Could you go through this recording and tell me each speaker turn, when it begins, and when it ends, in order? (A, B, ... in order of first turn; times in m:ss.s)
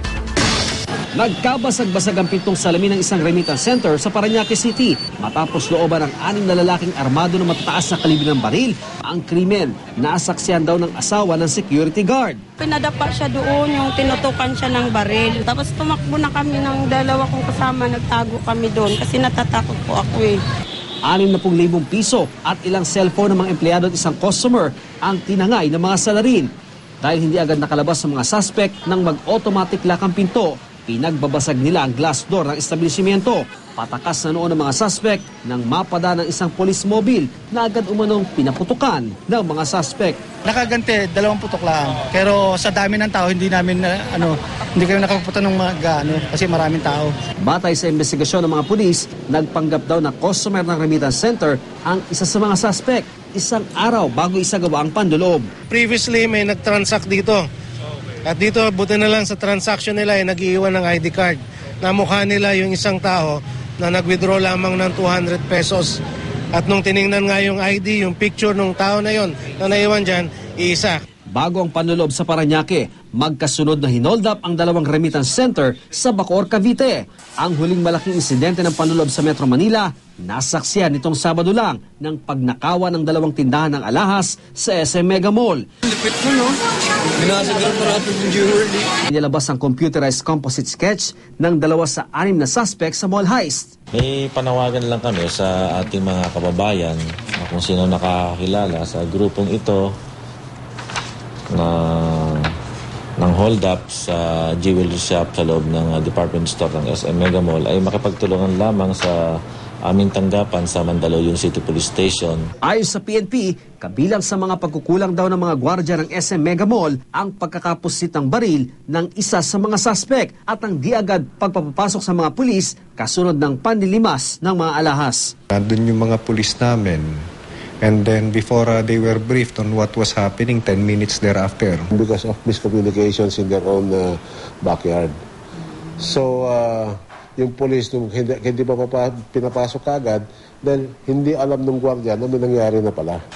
0:01.2-0:12.4 A
0:12.6-0:20.4 B
0:21.0-0:26.5 A
0:27.0-0:40.2 A
0:40.5-0:47.1 C
0:47.4-0:55.5 A
0:55.7-0:57.4 D
0:58.2-1:06.0 D
1:06.5-1:11.0 D
1:11.3-1:26.5 A
1:27.2-1:33.7 A
1:33.9-1:39.8 E
1:41.5-1:42.4 E
1:43.2-1:49.2 E
1:49.9-1:52.4 E
1:52.6-2:05.3 A
2:05.5-2:07.3 F
2:07.8-2:11.9 F
2:11.9-2:15.1 G
2:16.0-2:23.2 G